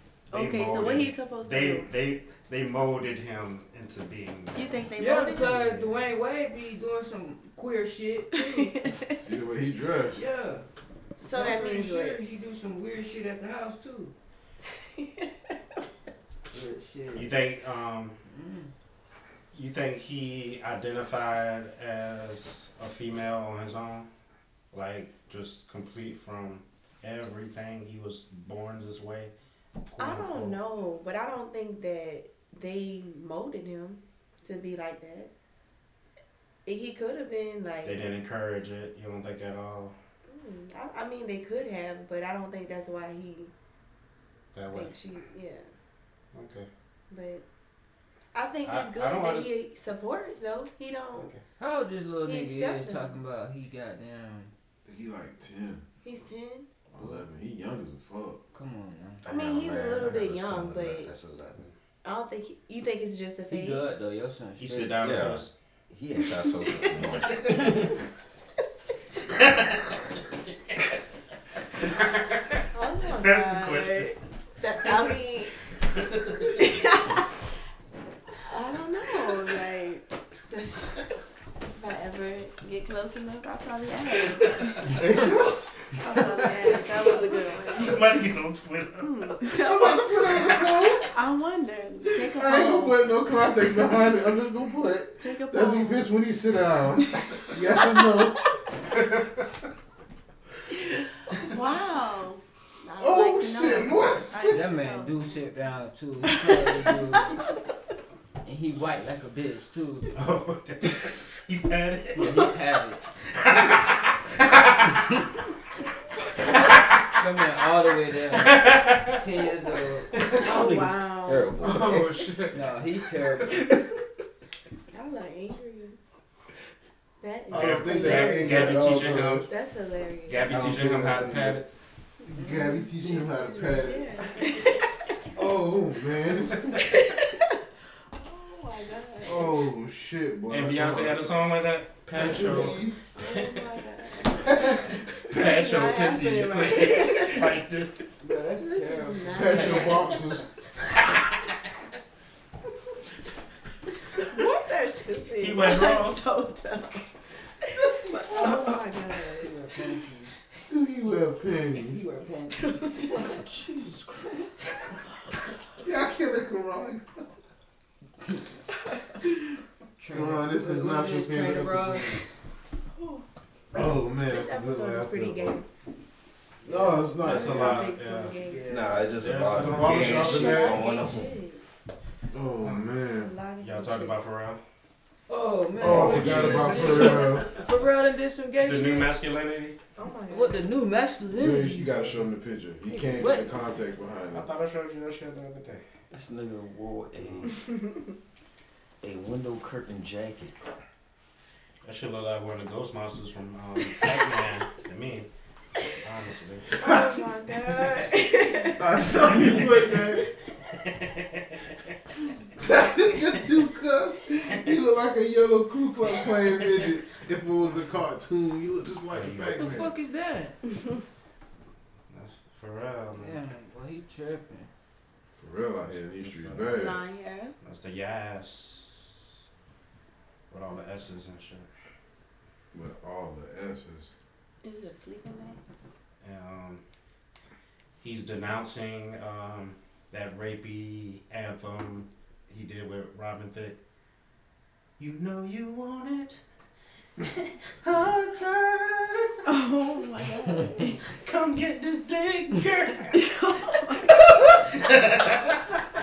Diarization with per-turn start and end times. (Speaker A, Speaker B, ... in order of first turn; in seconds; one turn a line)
Speaker A: 0.3-1.9
Speaker B: 0.3-4.7
Speaker A: 4.5-5.7
Speaker C: 5.0-8.7
Speaker A: 8.3-9.2
Speaker D: 9.2-10.2
Speaker C: 10.1-10.6
Speaker A: 11.2-12.2
Speaker C: 11.3-14.1
Speaker A: 14.8-15.4
Speaker C: 16.5-17.4
Speaker B: 17.1-18.1
Speaker C: 18.2-18.7
Speaker B: 19.5-24.1
Speaker B: 24.7-29.3
Speaker B: 29.9-30.6
Speaker A: 30.0-35.3
Speaker A: 36.6-38.1
Speaker B: 37.8-39.9
Speaker A: 40.3-43.5
Speaker B: 44.5-44.9
Speaker A: 44.7-45.7
Speaker B: 46.3-46.7
Speaker A: 47.1-47.4
Speaker A: 48.3-51.3
Speaker B: 48.6-49.5
Speaker B: 51.2-51.4
Speaker C: 51.6-54.5
Speaker A: 52.2-53.1
Speaker D: 54.8-55.8
Speaker A: 56.0-56.7
Speaker D: 56.9-58.4
Speaker C: 57.0-57.2
Speaker C: 58.5-59.2
Speaker E: 59.2-61.7
Speaker A: 59.2-61.1
Speaker A: 62.0-63.9
Speaker C: 63.5-65.0
Speaker B: 64.6-65.5
Speaker E: 65.0-67.9
Speaker B: 69.3-69.9
Speaker B: 71.8-72.7
Speaker A: 72.7-75.5
Speaker B: 73.2-74.1
Speaker B: 74.8-75.1
Speaker A: 76.4-77.3
Speaker A: 78.4-81.0
Speaker A: 81.7-85.0
Speaker D: 84.9-85.8
Speaker A: 86.0-88.2
Speaker B: 87.7-89.4
Speaker A: 89.0-93.1
Speaker D: 89.5-91.0
Speaker B: 90.4-90.8
Speaker D: 92.3-98.4
Speaker A: 95.2-96.0
Speaker A: 97.2-98.3
Speaker B: 98.9-99.4
Speaker A: 100.7-105.3
Speaker D: 103.0-104.5
Speaker C: 104.5-107.4
Speaker A: 106.3-107.3
Speaker C: 108.4-110.1
Speaker B: 110.1-112.4
Speaker C: 112.1-113.0
Speaker B: 113.3-115.2
Speaker C: 116.4-120.1
Speaker B: 118.3-119.2
Speaker B: 120.1-120.5
Speaker A: 120.4-122.0
Speaker E: 120.4-122.0
Speaker B: 121.6-122.6
Speaker C: 122.5-123.6
Speaker A: 124.9-126.0
Speaker A: 127.2-130.6
Speaker D: 127.5-129.5
Speaker B: 127.5-129.5
Speaker B: 130.3-131.7
Speaker D: 130.4-131.6
Speaker D: 132.3-134.1
Speaker A: 132.4-135.2
Speaker D: 135.3-136.8
Speaker A: 136.9-137.4
Speaker A: 138.1-139.6
Speaker D: 139.2-141.4
Speaker B: 140.5-143.7
Speaker D: 142.1-143.0
Speaker A: 143.1-147.6
Speaker D: 144.5-144.8
Speaker B: 144.9-148.1
Speaker C: 148.2-150.2
Speaker A: 148.6-150.2
Speaker D: 149.3-150.4
Speaker A: 154.2-157.1
Speaker B: 155.4-156.3
Speaker A: 157.8-159.5
Speaker E: 158.3-158.8
Speaker C: 159.4-160.3
Speaker D: 160.7-162.0
Speaker C: 161.8-164.5
Speaker A: 162.6-163.4
Speaker D: 165.8-167.3
Speaker C: 170.0-172.2
Speaker D: 170.1-172.2
Speaker A: 172.9-173.3
Speaker D: 173.7-175.6
Speaker A: 173.8-175.7
Speaker D: 176.6-177.9
Speaker B: 176.6-178.4
Speaker A: 177.3-178.9
Speaker C: 177.3-179.1
Speaker E: 178.7-181.4
Speaker B: 179.2-180.4
Speaker D: 179.4-181.0
Speaker A: 179.9-181.6
Speaker D: 182.3-183.3
Speaker B: 182.6-182.9
Speaker A: 183.0-184.2
Speaker B: 183.6-184.6
Speaker C: 185.3-189.1
Speaker D: 185.8-187.5
Speaker B: 185.8-187.2
Speaker A: 186.7-187.4
Speaker B: 188.6-189.8
Speaker A: 190.0-190.7
Speaker C: 190.3-191.9
Speaker D: 191.4-194.5
Speaker B: 191.9-192.1
Speaker C: 192.9-193.5
Speaker B: 194.3-195.8
Speaker E: 196.1-197.5
Speaker B: 197.2-197.5
Speaker A: 197.5-198.1
Speaker E: 199.0-200.6
Speaker B: 201.8-205.3
Speaker B: 206.0-206.8
Speaker A: 206.7-209.1
Speaker B: 207.7-208.0
Speaker D: 208.8-210.3
Speaker B: 209.6-210.0
Speaker B: 210.7-211.8
Speaker D: 212.6-219.9
Speaker B: 219.1-219.8
Speaker C: 219.5-220.6
Speaker B: 222.1-223.4
Speaker C: 223.2-224.7
Speaker D: 225.4-227.0
Speaker B: 225.9-226.8
Speaker A: 226.7-227.5
Speaker B: 227.6-229.2
Speaker B: 230.5-231.7
Speaker D: 232.7-234.1
Speaker A: 234.6-235.6
Speaker B: 236.2-236.8
Speaker B: 238.0-243.8
Speaker B: 245.0-246.4
Speaker B: 247.2-249.6
Speaker A: 249.4-251.0
Speaker B: 251.0-253.2
Speaker A: 253.1-254.2
Speaker B: 254.1-255.6